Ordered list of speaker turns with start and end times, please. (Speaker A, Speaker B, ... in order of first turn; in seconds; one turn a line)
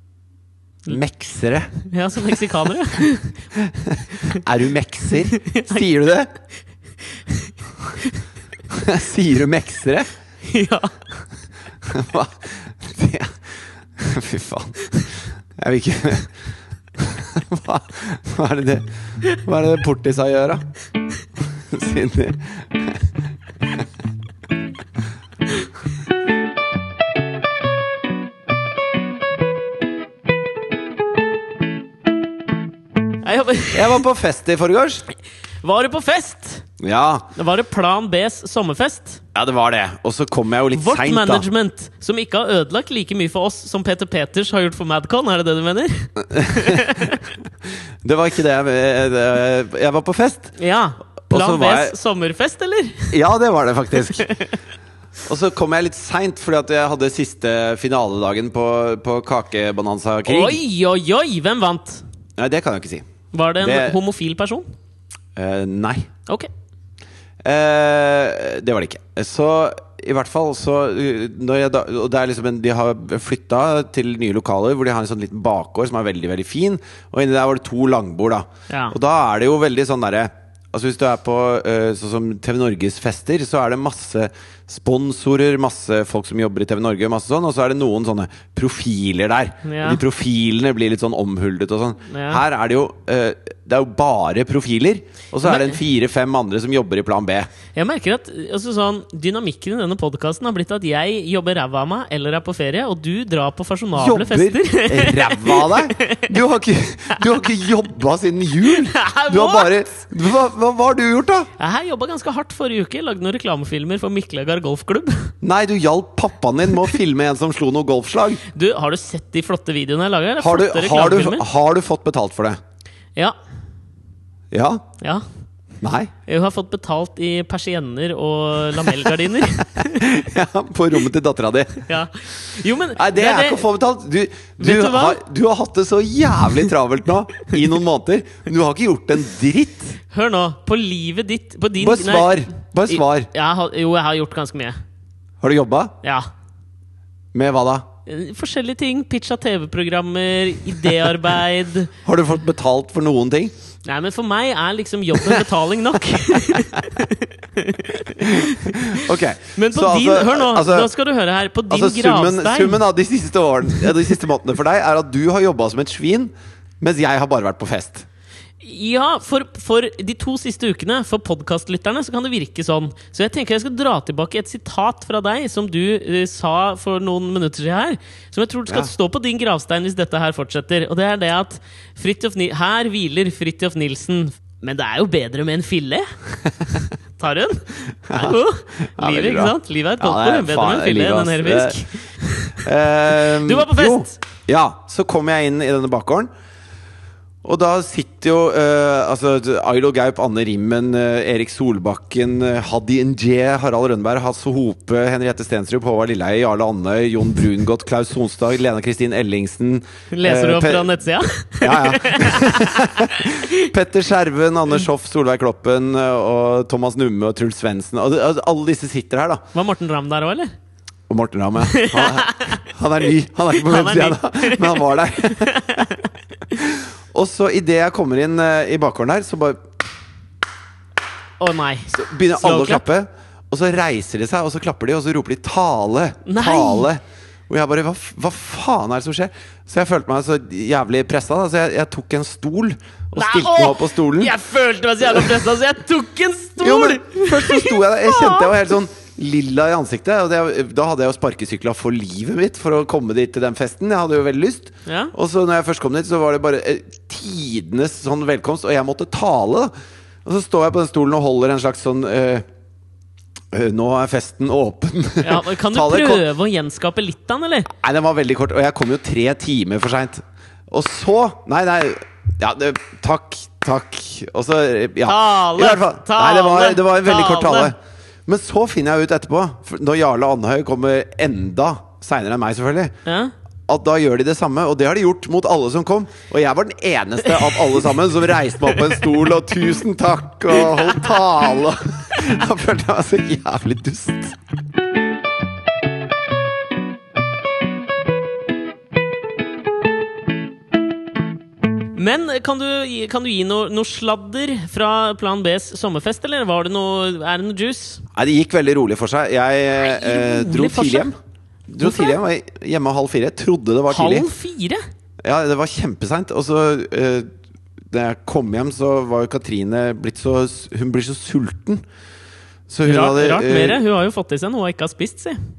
Speaker A: 0.9-1.7
Speaker B: 1.8-3.4
Speaker A: 3.6-6.3
Speaker B: 5.3-5.9
Speaker B: 7.3-8.2
Speaker A: 8.7-10.1
Speaker B: 10.4-11.0
Speaker A: 11.8-16.4
Speaker A: 17.0-20.7
Speaker A: 21.5-23.1
Speaker B: 33.2-34.0
Speaker A: 33.7-35.1
Speaker B: 35.6-36.7
Speaker A: 36.8-37.3
Speaker B: 37.4-39.2
Speaker A: 39.3-41.5
Speaker B: 40.7-47.3
Speaker A: 46.3-47.1
Speaker A: 48.0-50.5
Speaker B: 50.6-53.2
Speaker A: 51.3-52.0
Speaker A: 53.1-54.2
Speaker B: 54.1-54.6
Speaker A: 55.3-60.6
Speaker B: 60.3-62.0
Speaker A: 62.4-63.0
Speaker B: 63.3-64.7
Speaker A: 63.6-64.0
Speaker A: 65.4-66.1
Speaker A: 67.4-97.5
Speaker B: 78.7-79.0
Speaker B: 89.6-90.0
Speaker B: 92.1-92.4
Speaker B: 95.4-95.8
Speaker B: 97.7-106.4
Speaker A: 104.0-111.5
Speaker B: 108.7-109.7
Speaker B: 111.6-115.3
Speaker A: 115.4-118.4
Speaker B: 118.5-121.5
Speaker A: 120.4-122.6
Speaker A: 124.5-124.8
Speaker A: 125.8-126.1
Speaker B: 126.3-130.1
Speaker A: 129.8-131.9
Speaker B: 131.9-133.7
Speaker A: 132.9-140.0
Speaker B: 134.6-135.2
Speaker B: 140.1-144.8
Speaker A: 141.8-143.3
Speaker A: 145.4-145.9
Speaker A: 147.3-147.9
Speaker B: 148.1-151.9
Speaker A: 152.0-153.5
Speaker B: 153.8-162.8
Speaker A: 156.1-156.9
Speaker A: 158.2-160.9
Speaker A: 161.7-168.1
Speaker B: 168.6-186.1
Speaker B: 187.2-194.2
Speaker A: 188.1-188.4
Speaker A: 188.9-191.8
Speaker A: 192.6-196.3
Speaker A: 197.4-211.0
Speaker B: 210.1-213.5
Speaker A: 211.6-219.4
Speaker B: 219.5-220.5
Speaker A: 221.1-225.9
Speaker B: 221.6-222.7
Speaker B: 223.6-226.1
Speaker A: 226.5-229.6
Speaker B: 231.4-232.8
Speaker A: 231.9-244.3
Speaker B: 236.3-236.9
Speaker B: 243.2-248.7
Speaker A: 246.6-259.7
Speaker B: 254.9-255.1
Speaker A: 260.2-262.4
Speaker A: 263.5-266.2
Speaker B: 265.2-267.7
Speaker A: 267.8-282.9
Speaker B: 275.1-277.7
Speaker B: 283.1-283.3
Speaker A: 283.7-294.4
Speaker B: 302.0-308.0
Speaker A: 308.1-311.1
Speaker B: 309.7-311.1
Speaker A: 311.7-314.3
Speaker B: 311.8-312.2
Speaker B: 313.9-314.8
Speaker A: 315.2-317.3
Speaker A: 317.9-321.8
Speaker A: 322.7-323.8
Speaker B: 322.9-325.4